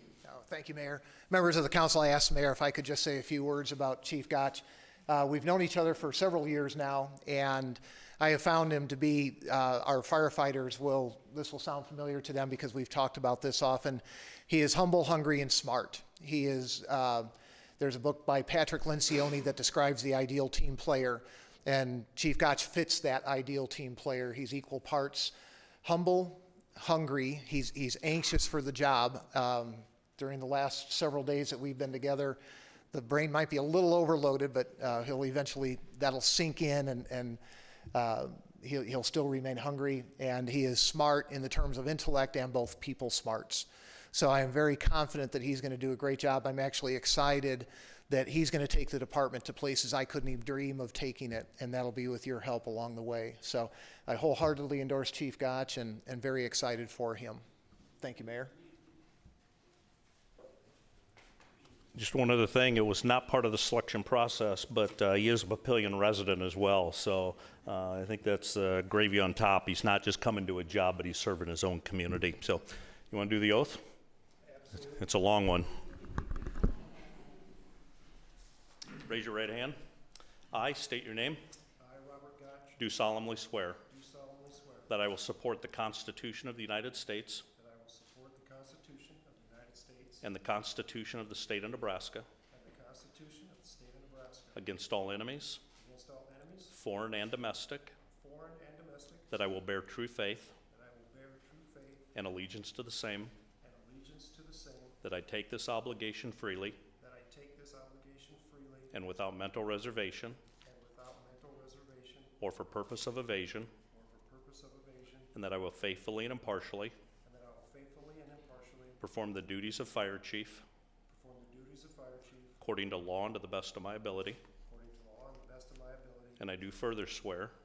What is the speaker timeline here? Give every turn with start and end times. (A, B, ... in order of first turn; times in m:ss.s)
0:00.2-0:25.3 A
0:25.8-0:32.4 A
0:32.9-0:37.4 A
0:37.9-0:57.4 A
0:58.0-0:58.5 A
1:02.0-1:13.8 B
1:14.4-1:15.1 C
1:14.8-1:15.7 B
1:19.0-1:19.8 B
1:20.5-1:21.4 B
1:21.8-1:22.9 C
1:22.8-1:23.8 B
1:23.9-1:24.9 C
1:24.9-1:27.4 B
1:27.6-1:30.2 C
1:30.2-1:32.3 B
1:32.5-1:34.7 C
1:34.6-1:35.6 B
1:35.8-1:36.7 C
1:36.7-1:38.0 B
1:38.1-1:39.3 C
1:39.3-1:40.5 B
1:40.7-1:42.1 C
1:42.1-1:43.3 B
1:43.6-1:45.0 C
1:45.0-1:46.8 B
1:47.0-1:48.9 C
1:48.9-1:50.4 B
1:50.6-1:52.4 C
1:52.4-1:53.7 B
1:53.9-1:55.3 C
1:55.3-1:57.0 B
1:57.2-1:59.0 C
1:59.0-2:00.6 B
2:01.1-2:02.6 C
2:02.6-2:04.4 B
2:04.7-2:06.5 C
2:06.4-2:07.5 B